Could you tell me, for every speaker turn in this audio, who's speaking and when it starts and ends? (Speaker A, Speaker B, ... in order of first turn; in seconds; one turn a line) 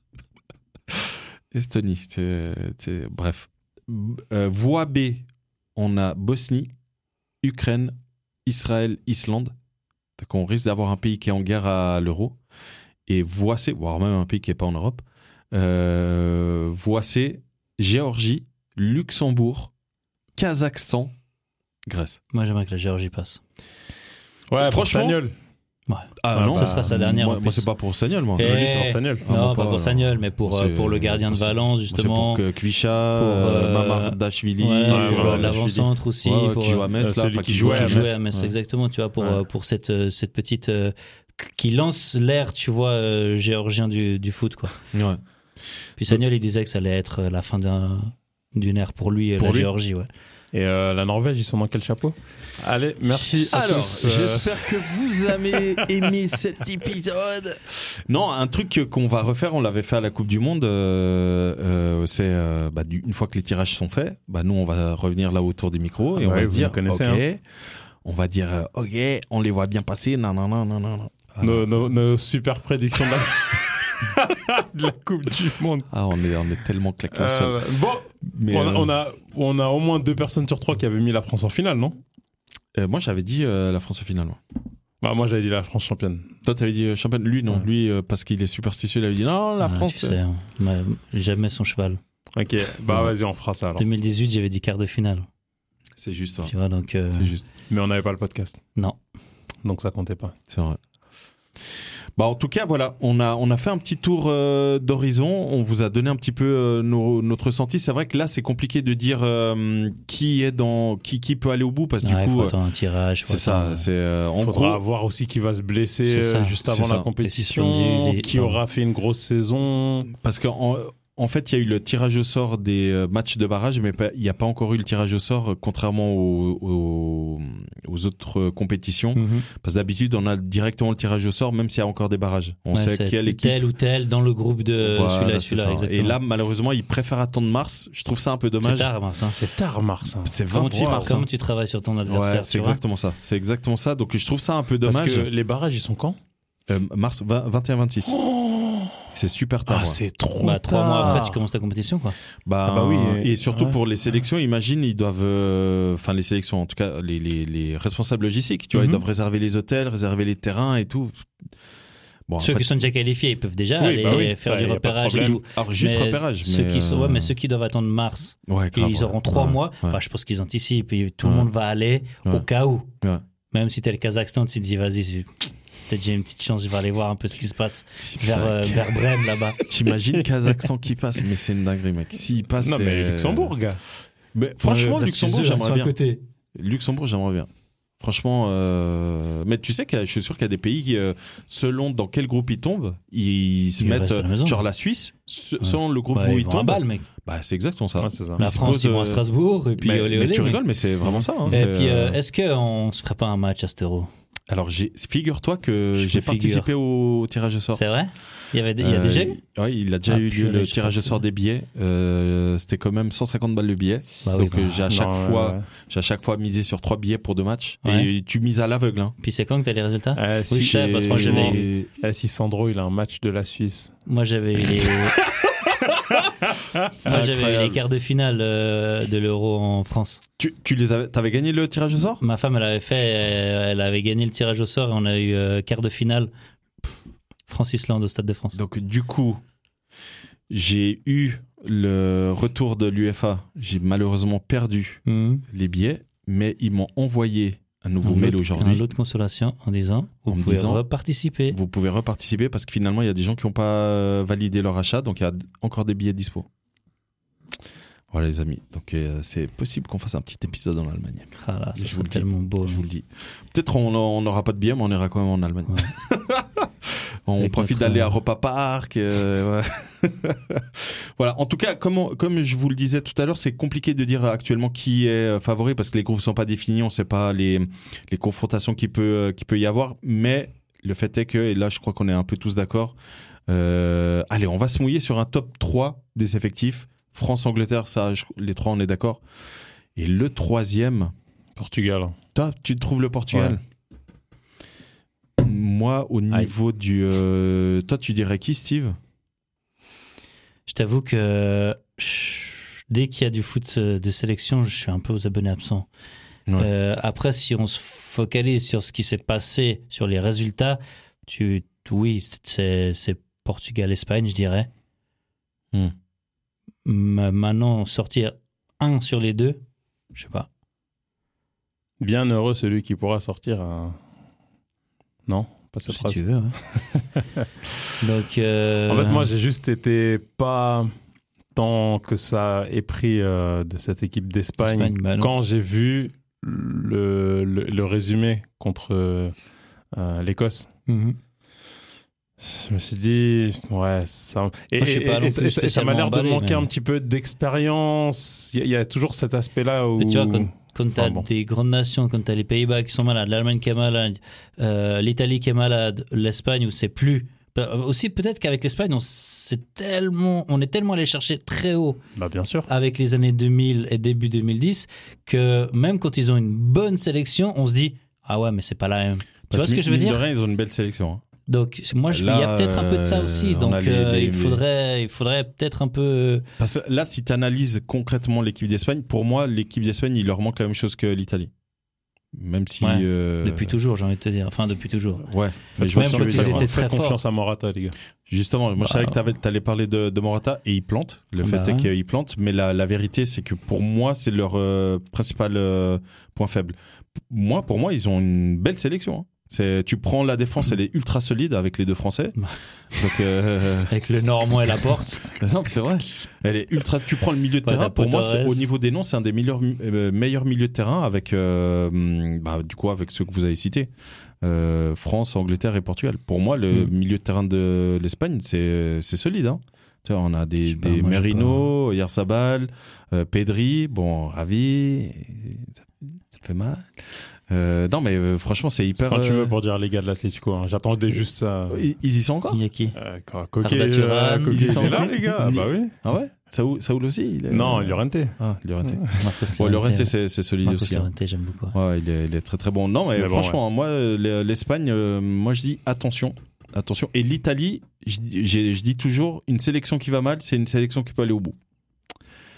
Speaker A: 0.9-6.7
Speaker A: 7.4-9.5
Speaker A: 10.2-12.4
Speaker A: 13.1-19.7
Speaker A: 20.4-21.1
Speaker A: 21.9-22.2
Speaker B: 22.3-23.4
Speaker C: 24.5-25.3
Speaker A: 24.6-25.2
Speaker B: 25.9-27.7
Speaker A: 26.2-28.5
Speaker C: 26.3-26.9
Speaker B: 28.4-32.4
Speaker C: 28.4-29.2
Speaker A: 29.2-38.4
Speaker B: 33.1-36.9
Speaker C: 34.9-35.6
Speaker C: 37.0-38.2
Speaker B: 37.5-44.7
Speaker A: 44.9-45.2
Speaker B: 46.0-50.1
Speaker C: 49.4-49.7
Speaker C: 50.5-54.9
Speaker A: 53.5-67.4
Speaker C: 55.6-55.9
Speaker C: 66.2-67.2
Speaker A: 68.0-71.7
Speaker C: 71.4-75.9
Speaker A: 75.9-77.7
Speaker C: 77.1-82.0
Speaker A: 78.2-78.9
Speaker A: 82.7-84.4
Speaker C: 85.0-86.3
Speaker A: 86.4-90.2
Speaker B: 89.6-92.0
Speaker C: 92.3-93.8
Speaker A: 92.9-93.1
Speaker B: 93.8-95.3
Speaker A: 96.0-96.5
Speaker B: 96.4-97.3
Speaker A: 97.1-97.5
Speaker C: 97.7-98.6
Speaker C: 99.6-100.3
Speaker A: 100.5-100.8
Speaker A: 101.8-112.5
Speaker B: 112.0-113.9
Speaker A: 113.2-114.8
Speaker C: 114.4-120.1
Speaker B: 116.1-118.6
Speaker A: 116.7-117.1
Speaker A: 120.1-133.7
Speaker B: 129.1-129.4
Speaker B: 132.7-136.2
Speaker A: 134.8-138.9
Speaker B: 138.6-139.4
Speaker C: 139.3-141.2
Speaker A: 140.2-141.2
Speaker B: 140.5-142.8
Speaker A: 142.1-145.3
Speaker C: 144.8-146.2
Speaker A: 146.7-148.2
Speaker C: 148.1-149.1
Speaker A: 149.1-150.0
Speaker C: 149.7-151.4
Speaker B: 150.4-152.2
Speaker A: 152.4-161.3
Speaker C: 152.6-153.8
Speaker C: 158.7-159.0
Speaker A: 162.3-162.7
Speaker B: 162.4-172.9
Speaker C: 163.8-165.4
Speaker A: 165.1-167.3
Speaker A: 168.5-170.0
Speaker A: 171.2-171.5
Speaker B: 173.5-179.6
Speaker A: 177.9-179.0
Speaker A: 179.6-183.6
Speaker C: 182.6-183.8
Speaker A: 184.3-185.9
Speaker B: 184.6-186.2
Speaker A: 186.5-187.5
Speaker A: 188.0-199.2
Speaker B: 193.8-194.6
Speaker B: 195.6-197.1
Speaker C: 198.0-198.4
Speaker B: 198.4-200.6
Speaker A: 199.8-202.2
Speaker C: 201.0-201.6
Speaker B: 201.5-204.1
Speaker A: 204.5-207.8
Speaker B: 205.9-206.7
Speaker B: 207.7-209.4
Speaker A: 208.8-219.1
Speaker B: 210.1-211.2
Speaker B: 214.2-214.8
Speaker C: 214.9-215.6
Speaker B: 219.2-221.6
Speaker C: 220.2-223.9
Speaker A: 220.5-221.9
Speaker B: 224.1-225.2
Speaker C: 224.8-226.9
Speaker A: 226.9-227.8
Speaker B: 227.0-230.2
Speaker A: 230.4-232.2
Speaker B: 232.2-236.3
Speaker B: 236.8-238.6
Speaker A: 238.5-239.4
Speaker A: 240.5-248.8
Speaker B: 245.1-245.4
Speaker B: 248.0-251.6
Speaker A: 250.3-250.8
Speaker A: 251.5-256.5
Speaker A: 258.1-282.9
Speaker B: 261.4-262.8
Speaker B: 267.4-268.1
Speaker A: 283.5-289.2
Speaker A: 289.9-291.1
Speaker C: 291.6-292.1
Speaker A: 292.3-293.6
Speaker C: 293.3-293.6
Speaker A: 295.4-298.9
Speaker B: 300.7-305.9
Speaker B: 306.6-314.7
Speaker B: 316.8-319.6
Speaker B: 320.1-320.5
Speaker C: 322.0-324.0
Speaker C: 325.3-327.5
Speaker B: 325.9-326.6
Speaker B: 328.0-329.3
Speaker C: 328.9-330.9
Speaker C: 331.5-339.3
Speaker B: 334.6-335.3
Speaker C: 339.9-340.7
Speaker B: 340.9-341.2
Speaker C: 342.4-351.3
Speaker B: 344.8-346.7
Speaker B: 350.0-362.0
Speaker C: 362.1-362.7
Speaker B: 362.7-370.2
Speaker A: 369.5-371.2
Speaker B: 371.5-376.4
Speaker A: 372.1-374.6
Speaker A: 376.6-381.5
Speaker A: 382.3-383.8
Speaker B: 382.8-385.3
Speaker A: 385.3-386.7
Speaker C: 385.8-387.9
Speaker B: 385.9-387.2
Speaker A: 388.3-396.7
Speaker B: 388.8-389.1
Speaker B: 391.4-391.9
Speaker A: 397.3-402.4
Speaker A: 402.9-403.9
Speaker B: 403.9-405.3
Speaker A: 405.3-413.9
Speaker B: 407.6-408.7
Speaker A: 414.4-429.5
Speaker B: 420.6-421.7
Speaker C: 429.0-431.8
Speaker A: 431.7-432.6
Speaker B: 432.5-432.9
Speaker C: 432.9-435.9
Speaker B: 433.6-435.1
Speaker A: 434.5-441.1
Speaker C: 437.5-439.2
Speaker B: 439.2-441.8
Speaker A: 441.7-451.6
Speaker C: 443.1-443.6